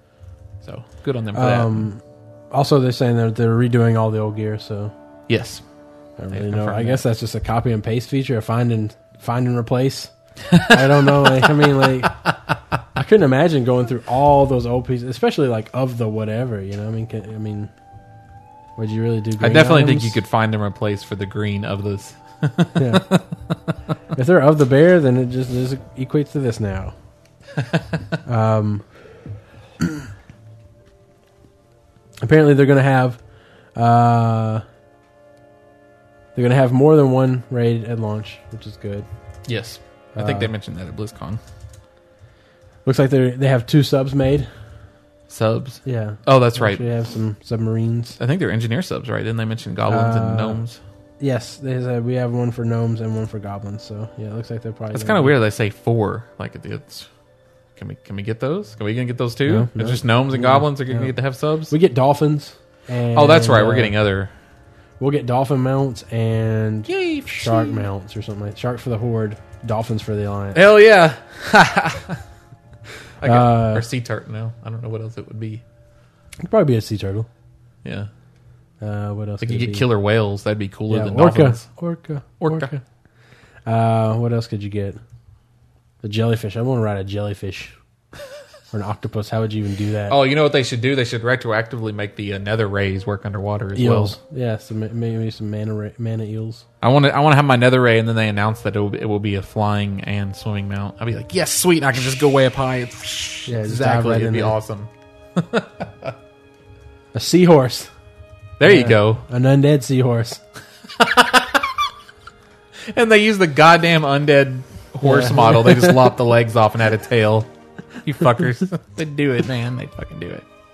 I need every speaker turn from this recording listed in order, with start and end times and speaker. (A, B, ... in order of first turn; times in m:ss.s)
0:00.6-0:01.8 A
0:01.3-0:04.9 B
0:05.3-0:05.6 A
0:06.2-0:12.1 B
0:06.3-0:07.0 A
0:10.5-0:12.1 A
0:12.9-0:17.7 B
0:18.8-0:20.2 B
0:19.4-0:23.2 A
0:22.7-0:23.1 B
0:24.1-0:26.9 B
0:28.2-0:28.8 B
0:32.2-0:33.2 B
0:33.7-0:34.6 B
0:36.3-0:39.1 B
0:39.5-0:41.4 A
0:40.2-0:40.5 B
0:42.8-0:44.5 B
0:45.3-0:46.8 A
0:45.8-0:48.2 B
0:48.2-0:50.8 A
0:49.9-0:50.6 B
0:51.2-0:55.3 B
0:54.9-0:57.1 A
0:57.8-1:01.7 A
0:59.5-1:01.1 B
1:01.7-1:03.9 B
1:03.1-1:04.3 A
1:05.0-1:10.6 B
1:06.9-1:07.8 A
1:10.5-1:12.2 A
1:13.2-1:15.6 A
1:13.2-1:13.9 B
1:16.4-1:17.3 B
1:17.8-1:18.1 A
1:18.8-1:19.8 B
1:19.4-1:21.7 A
1:20.9-1:22.8 B
1:22.4-1:22.7 A
1:23.6-1:25.0 B
1:26.0-1:27.7 B
1:28.7-1:30.2 B
1:30.1-1:34.2 A
1:33.8-1:36.6 B
1:36.8-1:46.1 A
1:43.4-1:44.6 B
1:47.1-1:47.9 B
1:48.6-1:49.2 A
1:48.6-1:50.4 B
1:51.0-1:51.7 A
1:52.9-1:57.5 A
1:55.0-1:56.1 B
1:58.0-2:00.4 A